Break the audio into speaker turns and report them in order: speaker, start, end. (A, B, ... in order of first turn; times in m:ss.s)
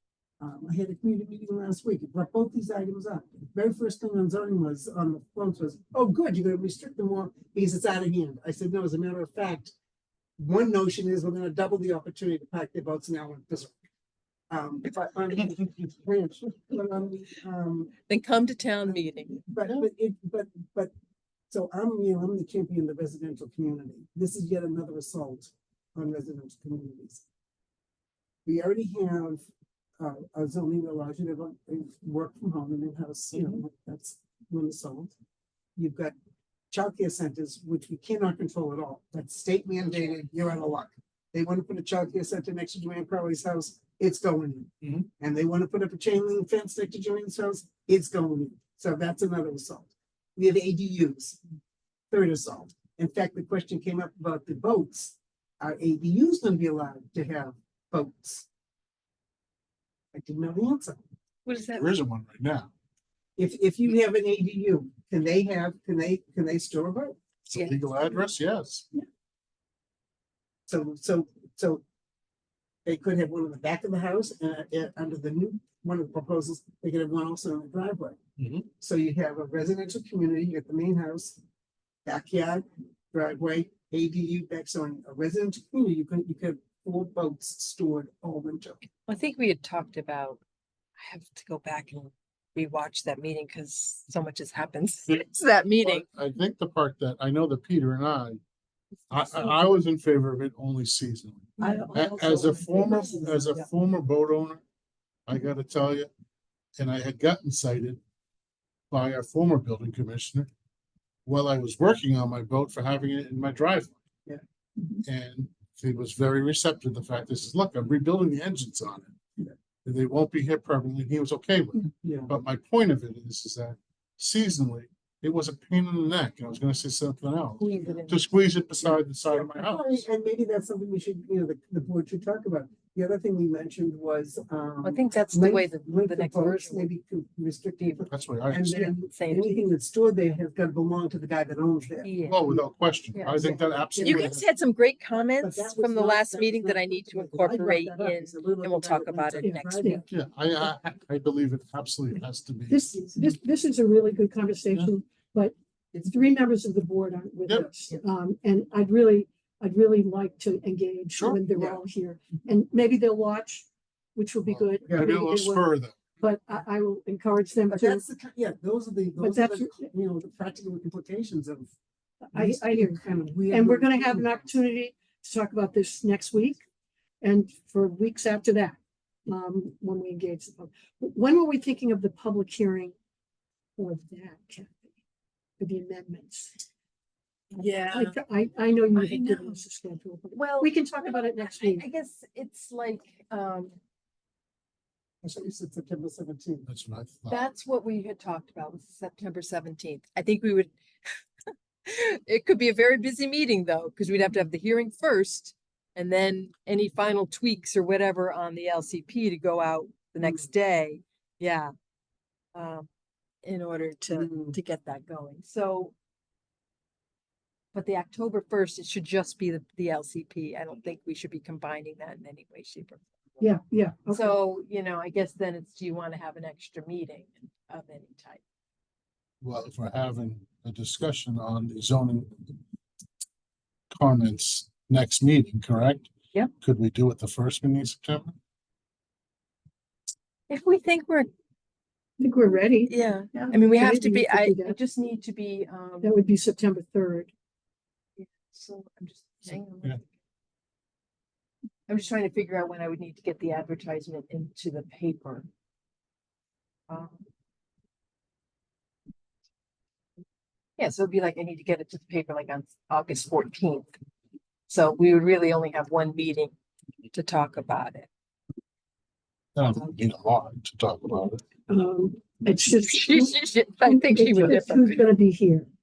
0:00.4-0:09.7 A
0:10.4-0:13.8 A
0:14.5-0:17.9 A
0:18.1-0:19.4 B
0:19.5-0:20.9 A
0:21.5-0:27.2 A
0:28.5-0:29.4 A
0:30.0-0:35.1 A
0:35.8-0:36.1 A
0:36.7-0:51.4 A
0:52.1-0:58.5 A
1:00.1-1:01.0 A
1:01.5-1:01.9 B
1:01.7-1:02.7 C
1:03.4-1:07.2 A
1:07.5-1:08.9 C
1:10.7-1:11.8 A
1:12.8-1:18.2 A
1:18.4-1:18.6 C
1:18.8-1:21.4 A
1:22.0-1:28.8 A
1:29.1-1:30.4 B
1:31.0-1:36.1 B
1:35.8-1:38.4 C
1:39.1-1:44.6 C
1:41.6-1:42.1 B
1:41.6-1:43.6 A
1:42.8-1:43.1 B
1:45.3-1:46.1 C
1:46.8-1:48.0 C
1:48.9-1:50.5 C
1:51.3-1:54.0 C
1:55.0-1:59.1 C
1:59.8-2:10.1 C
2:02.0-2:02.3 A
2:07.6-2:08.3 B
2:08.9-2:22.7 A
2:14.8-2:16.9 B
2:17.8-2:18.1 B
2:18.1-2:19.0 C
2:18.8-2:19.7 B
2:22.0-2:22.4 B
2:22.3-2:24.5 C
2:23.2-2:23.5 B
2:23.3-2:24.0 A
2:24.0-2:30.1 B
2:25.4-2:30.0 A
2:29.4-2:30.0 D
2:30.1-2:33.2 C
2:32.7-2:45.7 D
2:37.5-2:37.7 C
2:41.1-2:41.4 C
2:41.5-2:41.8 A
2:44.4-2:46.0 C
2:46.2-2:48.0 D
2:47.7-2:51.7 A
2:49.2-2:49.9 D
2:52.3-2:56.6 D
2:52.3-2:54.4 A
2:57.2-3:02.9 D
3:03.8-3:04.9 D
3:05.6-3:06.6 D
3:07.5-3:08.2 B
3:07.9-3:11.8 D
3:08.9-3:09.6 B
3:10.3-3:13.8 B
3:15.2-3:16.7 A
3:16.7-3:17.4 C
3:17.3-3:20.7 B
3:21.9-3:31.7 B
3:32.5-3:32.9 B
3:33.4-3:35.9 B
3:34.1-3:34.6 A
3:37.7-3:43.0 B
3:43.4-3:44.4 D
3:44.1-3:48.4 B
3:49.4-3:52.6 C
3:53.9-3:58.4 C
4:00.5-4:01.3 B
4:02.2-4:04.8 D
4:02.9-4:06.2 B
4:06.0-4:07.3 D
4:08.2-4:10.1 B
4:11.9-4:15.5 B
4:16.9-4:17.2 B
4:20.8-4:23.9 B
4:24.7-4:26.6 B
4:27.1-4:28.1 B
4:29.6-4:31.4 C
4:31.7-4:35.7 D
4:32.7-4:35.0 B